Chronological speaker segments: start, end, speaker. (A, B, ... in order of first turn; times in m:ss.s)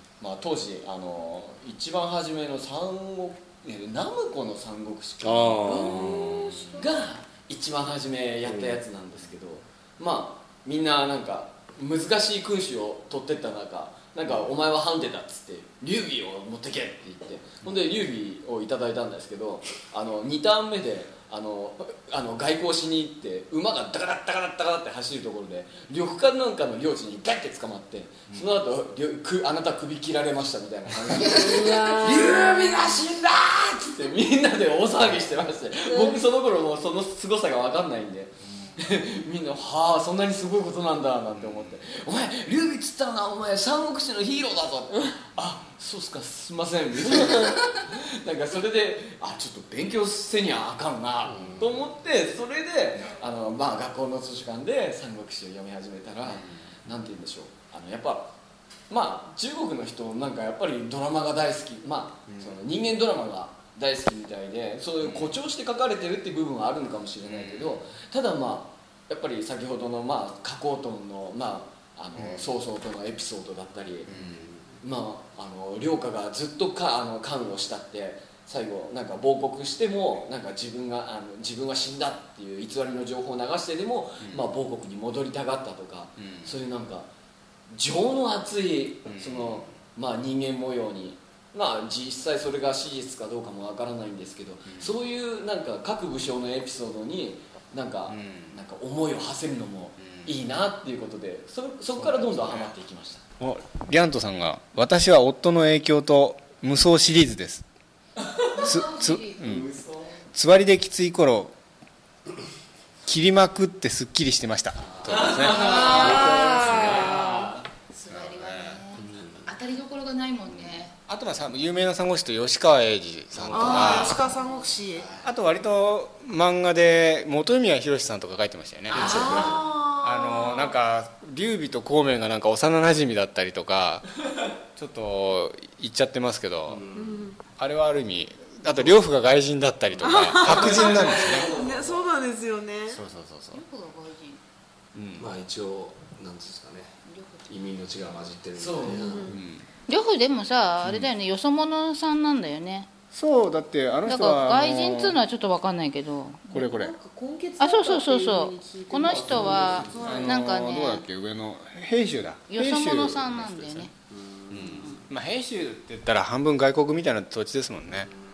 0:00.2-0:58.3 A
0:05.2-0:06.5 B
0:06.1-0:06.6 C
0:08.4-0:08.8 B
0:31.2-0:32.3 D
0:35.9-0:36.2 D
0:38.5-0:38.8 C
0:51.3-0:51.8 B
0:56.3-0:56.7 C
0:58.9-1:14.1 A
1:02.3-1:02.6 C
1:05.1-1:05.3 C
1:07.2-1:07.8 C
1:12.2-1:12.5 C
1:14.1-1:14.5 C
1:14.1-1:14.6 B
1:14.8-1:27.1 A
1:24.2-1:24.5 C
1:26.2-1:26.6 C
1:27.7-1:43.2 A
1:29.0-1:29.8 C
1:34.6-1:34.9 C
1:38.1-1:38.6 C
1:40.0-1:40.3 C
1:43.4-1:47.6 C
1:48.2-1:48.6 A
1:48.5-1:49.4 E
1:48.6-1:49.7 C
1:49.4-1:50.2 A
1:50.3-1:51.6 C
1:53.0-1:55.8 C
1:54.9-1:57.6 A
1:55.5-1:57.5 D
1:55.8-1:56.9 B
1:57.9-2:00.9 E
1:58.1-1:59.0 C
1:59.0-1:59.4 B
2:01.0-2:04.2 C
2:03.3-2:04.2 B
2:03.5-2:05.1 D
2:04.2-2:04.6 E
2:05.2-2:14.0 C
2:08.9-2:09.6 B
2:08.9-2:09.6 A
2:08.9-2:10.7 D
2:14.7-2:16.8 C
2:16.7-2:17.3 B
2:16.9-2:17.4 D
2:17.6-2:21.5 C
2:20.0-2:23.0 D
2:20.4-2:22.1 A
2:22.9-2:23.6 C
2:23.5-2:24.4 E
2:24.9-2:25.3 C
2:25.2-2:26.9 B
2:27.1-2:27.4 E
2:27.5-2:29.4 B
2:28.6-2:29.2 A
2:29.0-2:29.4 D
2:29.3-2:29.6 C
2:29.9-2:32.9 E
2:30.8-2:31.1 C
2:33.1-2:35.2 C
2:34.0-2:36.5 E
2:36.5-2:36.9 C
2:36.5-2:40.3 D
2:37.6-2:41.0 E
2:39.1-2:40.2 B
2:40.0-2:43.9 C
2:42.5-2:43.9 E
2:44.5-2:48.1 C
2:44.7-2:45.0 E